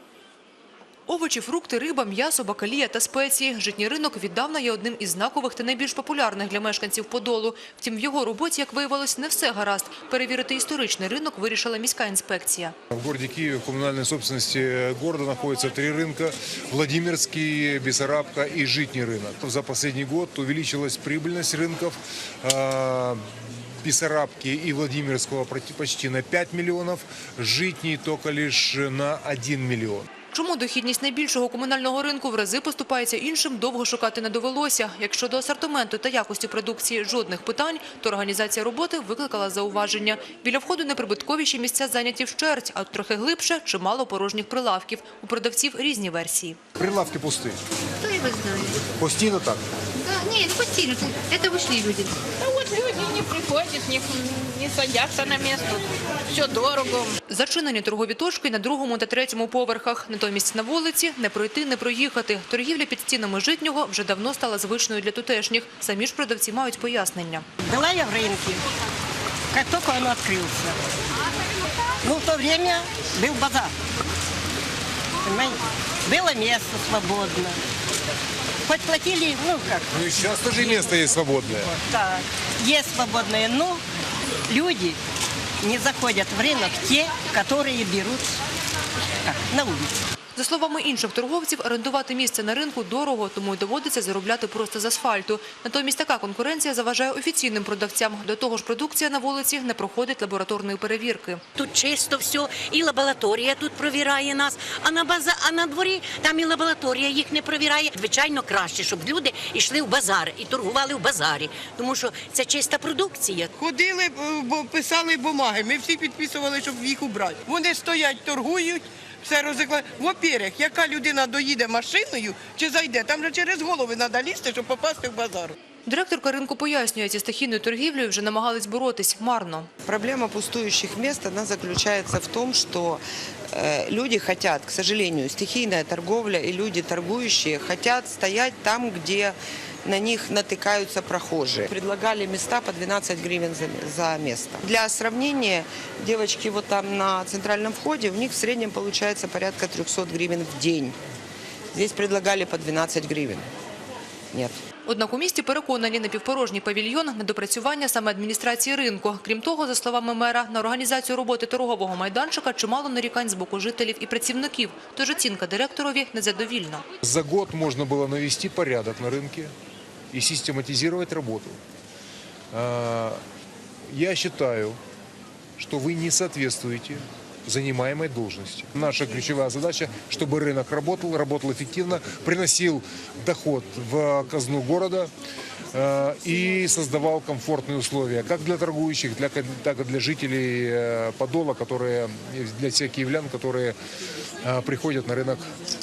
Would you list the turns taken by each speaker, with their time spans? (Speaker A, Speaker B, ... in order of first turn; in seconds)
Speaker A: 1.1-12.7, 30.3-46.6, 57.3-67.4, 90.3-101.4, 125.8-129.7, 154.8-166.9
Speaker B: 12.9-23.2, 23.8-30.1, 46.8-47.6, 48.9-49.6, 79.9-81.7, 167.0-169.5, 170.1-171.6, 172.5-173.2, 173.9-174.8, 175.6-185.1, 185.7-193.7, 194.4-195.5
Speaker C: 48.0-48.8, 50.0-52.1
Speaker D: 52.4-57.1
Speaker E: 67.7-68.7, 69.5-70.8, 72.0-73.7, 75.2-77.6, 78.6-79.9, 80.6-80.9, 81.8-83.8, 84.5-85.0, 85.6-88.4, 89.2-89.9
Speaker F: 101.6-113.5
Speaker G: 113.6-114.9, 115.7-123.6, 124.1-125.5
Speaker H: 129.8-151.0, 151.7-153.5, 154.3-154.6